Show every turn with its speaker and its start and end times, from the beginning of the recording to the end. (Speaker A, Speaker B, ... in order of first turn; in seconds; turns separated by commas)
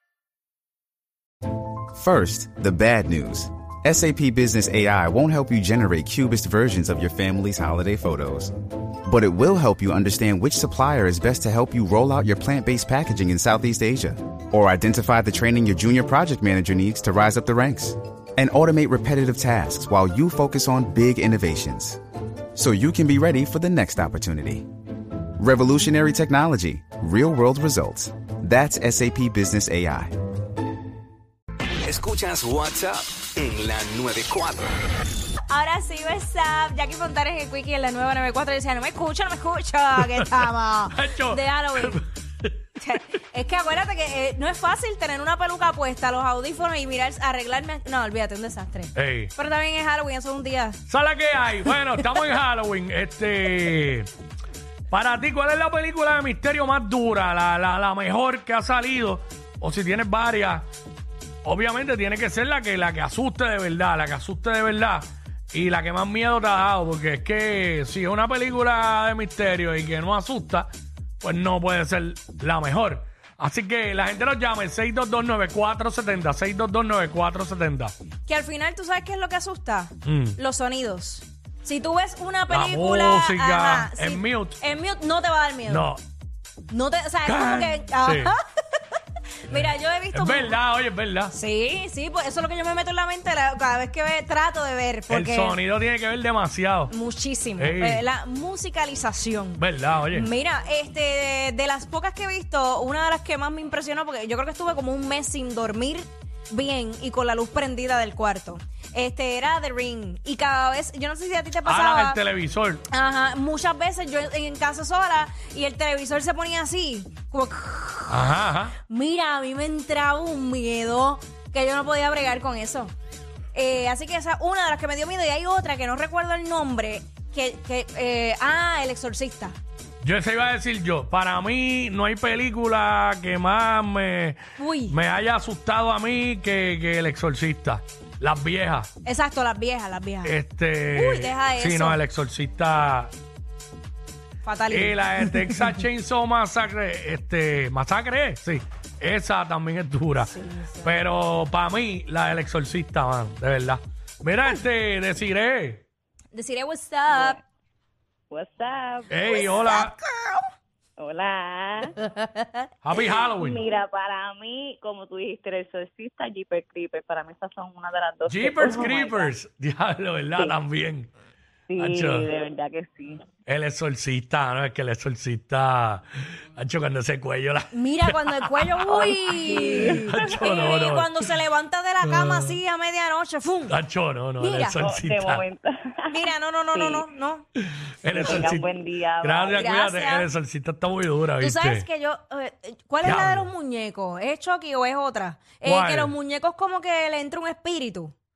Speaker A: 1.9-8.5, Speaker A: 9.1-22.0, Speaker A: 22.5-24.6, Speaker A: 25.4-30.1, Speaker B: 31.8-34.7, Speaker C: 35.5-42.0, Speaker D: 40.0-42.6, Speaker C: 42.8-50.8, Speaker D: 48.9-49.3, Speaker D: 50.9-54.1, Speaker D: 54.9-60.7, Speaker D: 61.4-70.7, Speaker D: 71.2-77.9, Speaker C: 78.2-85.9, Speaker D: 80.0-80.4, Speaker D: 82.5-84.6, Speaker D: 85.7-86.0, Speaker C: 86.7-88.4, Speaker D: 87.2-88.3, Speaker C: 89.5-90.6, Speaker D: 89.5-91.3, Speaker C: 91.3-95.6, Speaker D: 95.1-96.9, Speaker C: 96.9-112.2, Speaker D: 97.6-98.0, Speaker D: 99.6-100.3, Speaker D: 111.6-112.8, Speaker C: 112.9-118.2, Speaker D: 118.1-118.7, Speaker C: 118.9-122.9, Speaker C: 123.5-129.6, Speaker D: 130.0-138.9, Speaker C: 134.6-135.0, Speaker C: 139.0-140.4, Speaker D: 140.2-143.1, Speaker C: 140.9-142.0, Speaker C: 144.4-145.5, Speaker D: 144.7-150.3, Speaker C: 150.2-150.9, Speaker D: 150.8-155.8, Speaker C: 156.3-157.4, Speaker E: 157.1-157.4, Speaker E: 158.3-159.7, Speaker D: 159.1-159.9, Speaker C: 159.7-160.4, Speaker E: 161.0-161.9, Speaker C: 162.1-162.6, Speaker D: 162.8-163.6, Speaker E: 163.0-169.3, Speaker D: 168.3-171.1, Speaker E: 171.7-173.2, Speaker D: 171.8-172.3, Speaker D: 173.4-178.6, Speaker C: 177.7-183.7, Speaker E: 178.9-180.0, Speaker D: 179.4-181.1, Speaker D: 182.1-182.5, Speaker D: 183.7-185.4, Speaker C: 184.4-184.8, Speaker E: 184.8-187.1, Speaker C: 186.1-187.4, Speaker D: 188.0-188.7, Speaker E: 188.1-189.6, Speaker D: 189.2-191.9, Speaker C: 189.5-190.3, Speaker C: 191.4-198.1, Speaker D: 193.0-193.5, Speaker D: 195.6-196.1